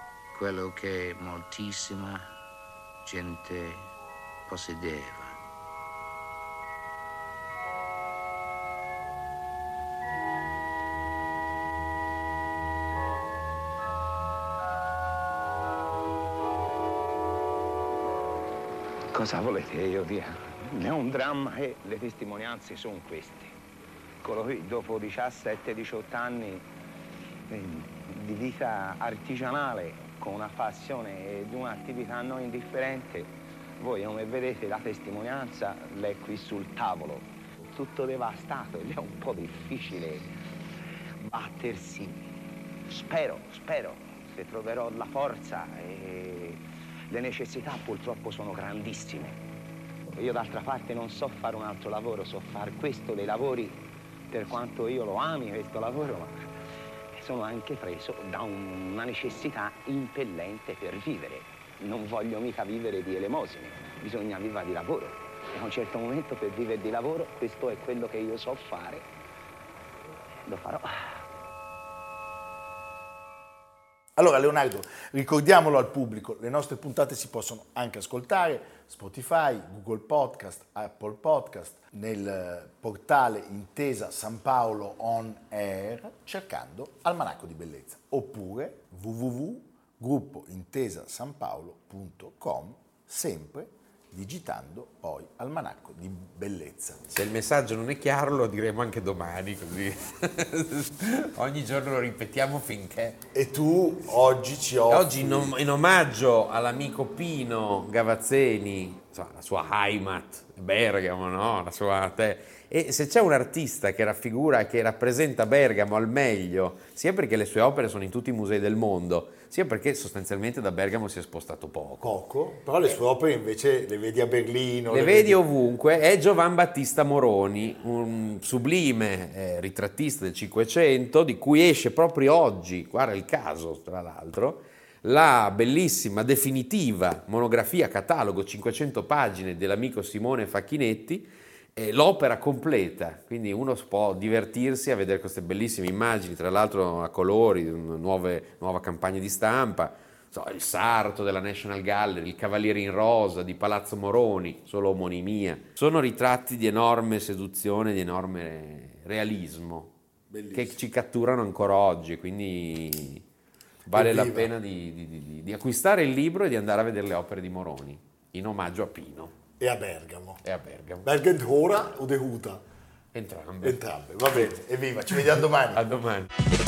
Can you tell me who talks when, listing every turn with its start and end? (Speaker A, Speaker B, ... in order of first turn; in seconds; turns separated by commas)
Speaker A: 0.3-2.3, Speaker A: 3.0-3.9, Speaker A: 4.5-5.4, Speaker B: 19.1-23.6, Speaker B: 24.2-26.7, Speaker B: 27.5-40.3, Speaker B: 41.2-42.3, Speaker B: 42.9-49.4, Speaker B: 50.1-56.5, Speaker B: 57.1-69.1, Speaker B: 70.5-71.2, Speaker C: 74.2-97.0, Speaker D: 97.1-103.2, Speaker C: 103.3-105.6, Speaker D: 104.9-122.1, Speaker C: 122.0-125.4, Speaker D: 124.9-159.9, Speaker C: 160.3-160.8, Speaker D: 160.5-163.2, Speaker C: 163.9-164.5, Speaker D: 163.9-169.3, Speaker C: 169.6-170.4, Speaker D: 170.4-171.1, Speaker C: 171.0-172.6, Speaker D: 173.1-173.8, Speaker C: 173.6-175.9, Speaker D: 175.7-176.3